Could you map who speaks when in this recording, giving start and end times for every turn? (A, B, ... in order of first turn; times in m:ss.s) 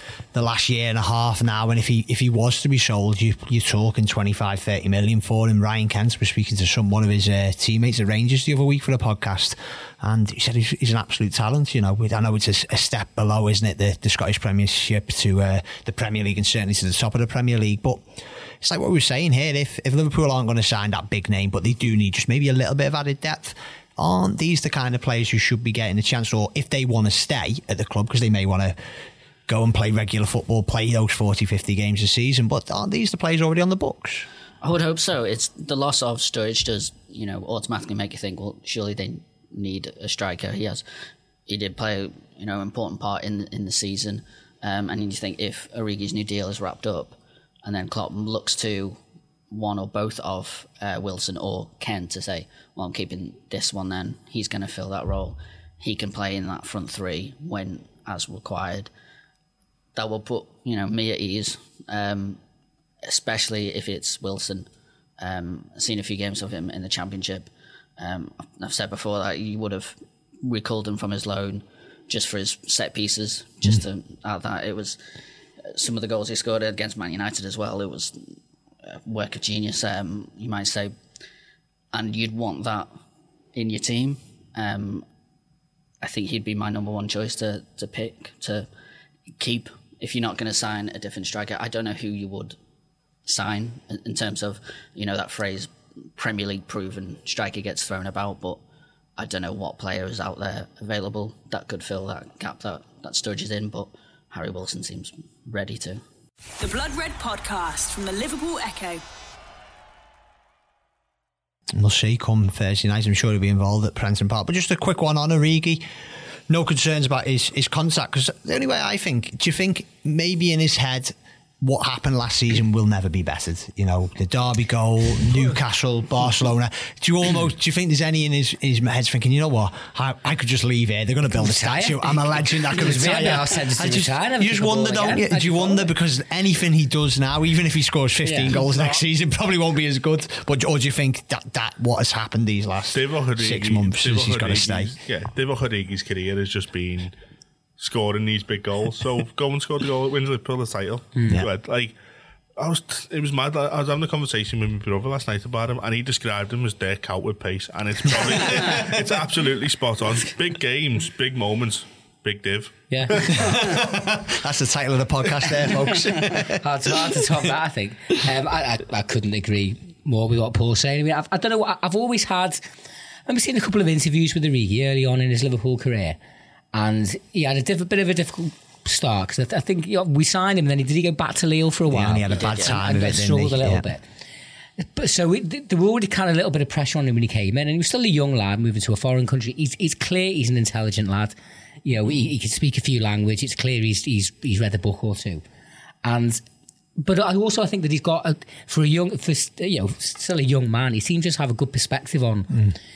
0:00.3-0:18.0 A
0:18.6-0:28.8 A
0:29.5-0:34.3 A
0:34.6-0:40.8 B
0:41.5-0:58.9 B
1:00.0-1:02.4 B
1:03.0-1:04.7 B
1:05.2-1:15.0 B
1:15.6-1:21.0 B
1:21.9-1:22.9 B
1:23.5-1:25.1 B
1:26.0-1:28.7 B
1:29.4-1:32.6 B
1:33.3-1:38.6 B
1:39.2-1:46.0 B
1:46.6-1:49.0 C
1:51.8-1:55.8 A
1:56.5-2:25.0 A
2:11.3-2:15.9 D
2:18.2-2:18.6 D
2:22.9-2:27.2 E
2:27.8-2:32.0 E
2:31.2-2:31.4 D
2:32.6-2:43.6 E
2:42.9-2:43.4 D
2:43.3-2:47.4 A
2:46.5-2:52.6 D
2:53.3-2:56.2 D
2:56.7-3:04.0 D
3:01.9-3:03.9 A
3:02.3-3:02.8 B
3:04.8-3:15.4 D
3:16.0-3:16.4 D
3:17.0-3:22.7 D